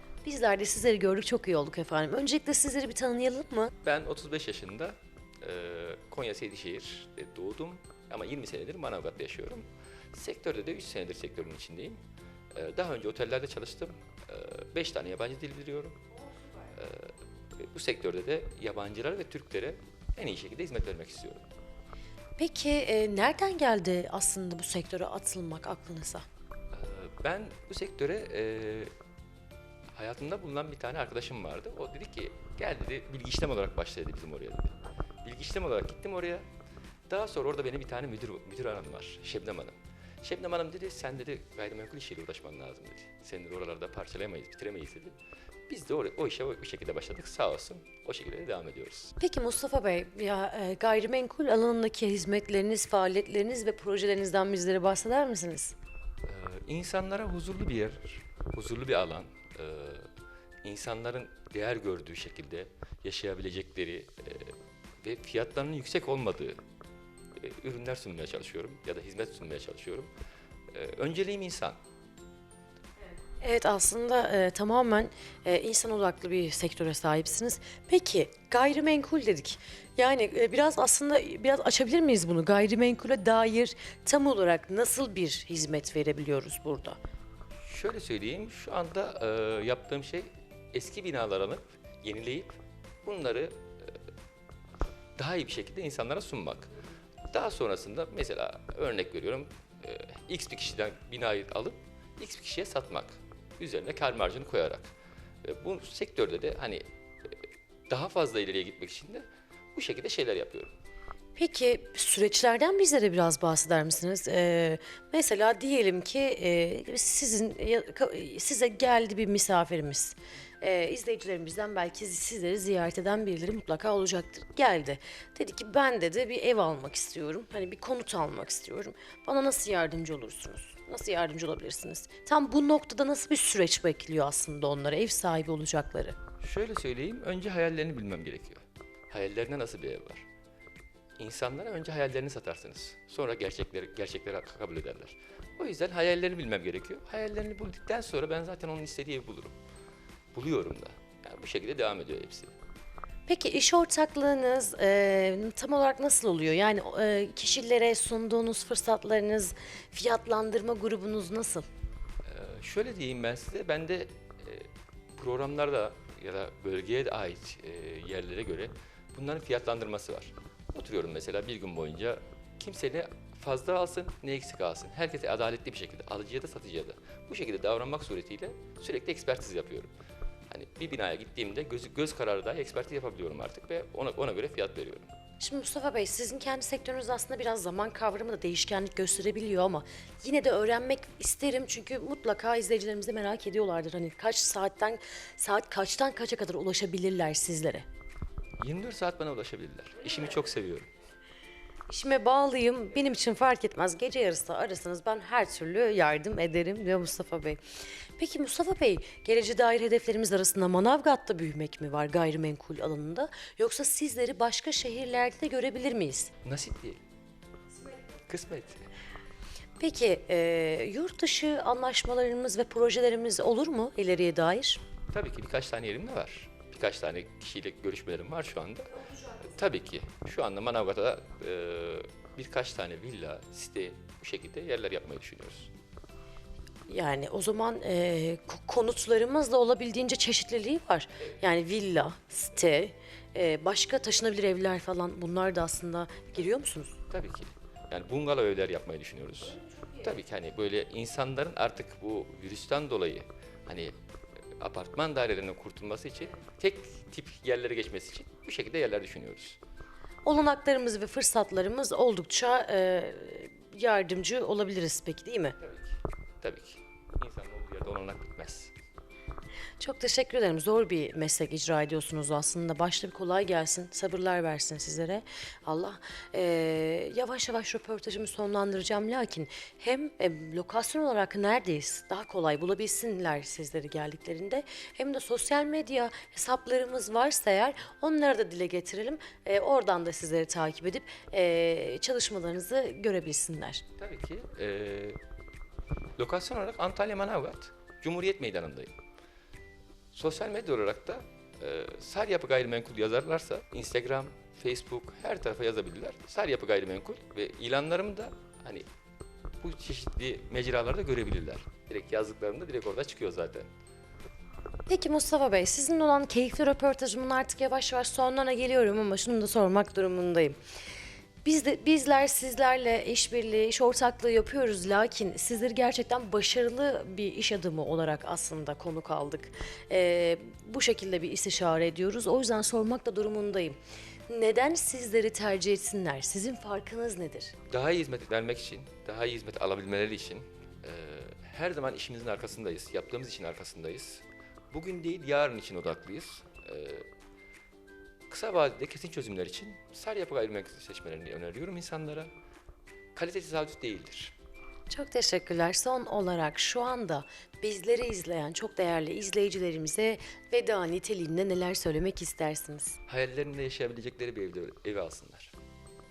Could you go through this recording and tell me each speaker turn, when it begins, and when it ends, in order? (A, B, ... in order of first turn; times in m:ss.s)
0:00.2-0:03.7 A
0:03.8-0:12.0 B
0:12.5-0:16.0 B
0:16.6-0:21.5 B
0:22.4-0:26.3 A
0:26.7-0:28.9 B
0:30.0-0:36.4 B
0:37.1-0:45.2 B
0:45.7-0:49.1 B
0:49.2-0:55.8 A
0:56.2-1:00.1 B
1:00.6-1:06.6 B
1:07.4-1:10.1 B
1:10.7-1:11.8 B
1:13.4-1:27.0 A
1:27.6-1:34.0 B
1:35.2-1:36.7 B
1:37.3-1:44.9 B
1:45.4-1:47.4 B
1:47.9-1:49.2 B
1:49.8-1:50.7 B
1:51.4-2:16.2 A
2:16.4-2:20.3 B
2:21.2-2:29.6 B
2:30.3-2:32.5 B
2:33.3-2:41.7 A
2:42.2-2:59.9 B
3:00.5-3:05.1 B
3:05.4-3:17.8 A
3:18.6-3:20.9 B
3:21.9-3:27.6 A
3:28.2-3:36.3 A
3:36.4-3:37.0 B
3:38.2-3:38.8 B
3:39.8-3:44.8 A
3:45.1-3:55.7 B
3:56.9-4:07.0 A
4:07.1-4:13.9 B
4:14.6-4:19.6 B
4:20.2-4:25.6 A
4:25.6-4:28.7 B
4:29.8-4:53.8 A
4:54.0-4:55.2 B
4:56.2-4:58.9 B
5:00.1-5:08.8 B
5:09.6-5:13.7 B
5:14.9-5:20.6 A
5:21.4-5:33.8 A
5:34.3-5:37.5 A
5:37.7-5:47.0 B
5:48.3-5:52.3 B
5:53.2-5:54.3 B
5:54.9-6:03.0 A
6:03.1-6:05.5 B